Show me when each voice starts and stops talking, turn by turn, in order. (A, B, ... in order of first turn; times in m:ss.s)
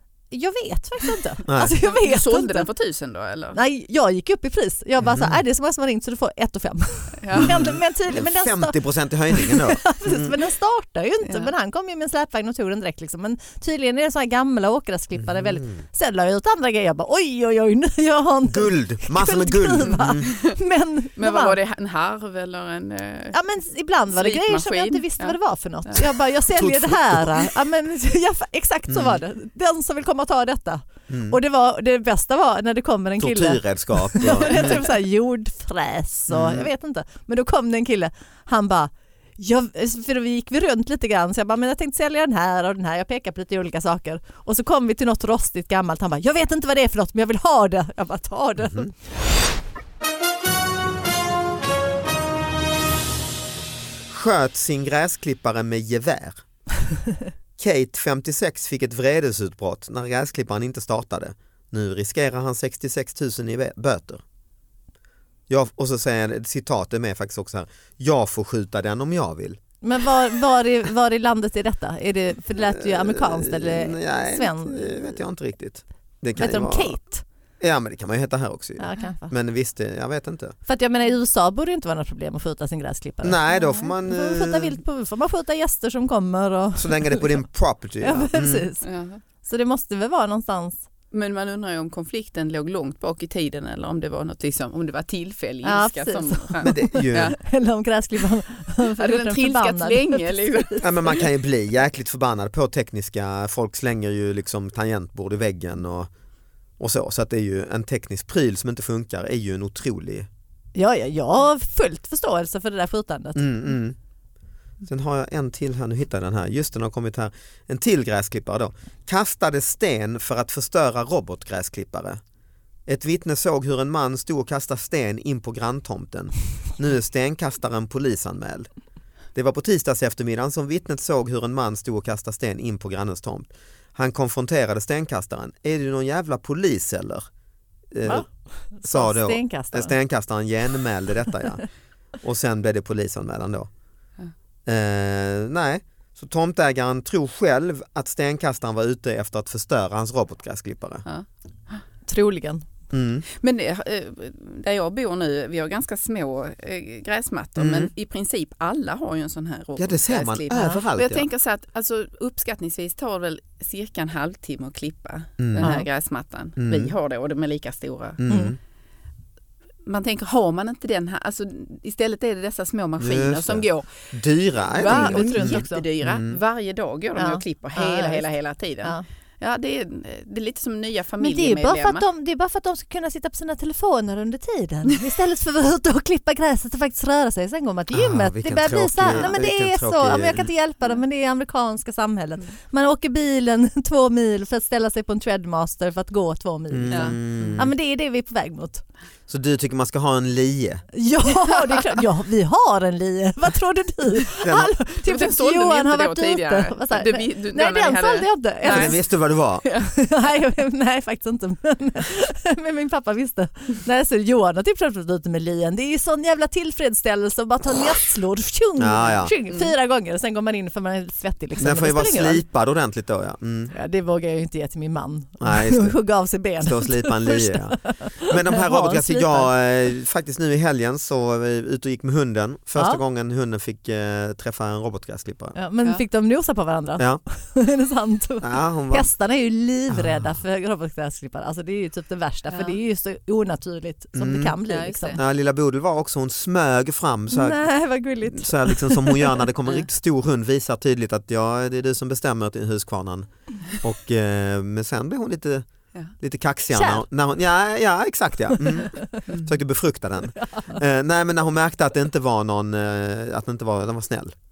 0:00.3-0:02.7 A
0:01.5-0:01.8 B
0:01.8-0:03.6 C
0:03.6-0:08.8 A
0:05.0-0:05.4 B
0:07.2-0:07.6 C
0:07.3-0:10.3 B
0:09.3-0:21.6 A
0:11.2-0:11.5 C
0:15.2-0:15.8 B
0:18.5-0:20.3 B
0:20.3-0:20.6 C
0:21.2-0:23.4 C
0:23.3-0:48.9 A
0:24.1-0:26.1 C
0:26.6-0:27.5 B
0:28.9-0:29.2 B
0:31.1-0:31.4 B
0:33.2-0:34.9 B
0:36.3-0:36.7 B
0:54.1-0:56.4 B
0:57.6-1:04.2 B
1:05.5-1:09.6 B
1:09.8-1:15.2 A
1:12.6-1:17.0 B
1:16.4-1:17.2 A
1:17.6-1:20.6 B
1:18.8-1:19.3 A
1:20.7-1:27.4 A
1:23.2-1:24.8 B
1:26.8-1:28.7 B
1:28.0-1:28.9 A
1:28.8-1:29.2 C
1:29.4-1:30.8 A
1:31.1-1:37.4 C
1:35.6-1:41.2 A
1:36.6-1:37.4 B
1:39.0-1:41.2 C
1:40.8-1:46.1 B
1:46.8-1:50.3 B
1:50.8-1:53.8 A
1:53.4-1:54.0 B
1:54.9-2:02.2 B
2:02.9-2:08.7 B
2:09.4-2:17.2 B
2:17.9-2:18.3 B
2:18.0-2:19.9 A
2:18.8-2:21.7 B
2:22.2-2:23.7 B
2:24.7-2:31.0 B
2:31.1-2:31.8 C
2:32.1-2:32.6 A
2:32.9-2:33.2 B
2:33.3-2:48.2 C
2:37.6-2:37.9 B
2:39.8-2:41.3 B
2:40.6-2:40.8 A
2:45.4-2:45.8 B
2:45.6-2:45.9 A
2:46.6-2:46.9 B
2:48.2-2:48.6 B
2:48.3-2:48.6 A
2:49.8-2:53.9 C
2:53.0-2:56.4 B
2:54.7-3:02.0 C
2:54.8-2:55.8 A
2:57.2-2:58.3 A
3:01.2-3:18.8 A
3:07.9-3:10.5 B
3:16.7-3:17.7 B
3:16.9-3:17.6 C
3:19.3-3:20.9 B
3:20.9-3:29.0 A
3:24.4-3:24.7 B
3:25.0-3:29.0 C
3:28.6-3:29.6 B
3:29.6-3:29.9 C
3:29.9-3:42.4 A
3:38.8-3:39.4 B
3:41.6-3:43.7 B
3:43.7-3:49.5 A
3:45.4-3:46.0 B
3:46.6-3:55.6 B
3:55.6-4:05.2 A
3:58.4-3:59.1 B
3:59.9-4:00.3 B
4:02.5-4:02.8 C
4:04.2-4:04.6 B
4:04.7-4:05.2 C
4:05.2-4:07.7 B
4:07.3-4:09.4 A
4:08.3-4:15.7 B
4:16.2-4:24.4 B
4:16.7-4:17.0 A
4:19.3-4:19.6 C
4:20.4-4:20.8 A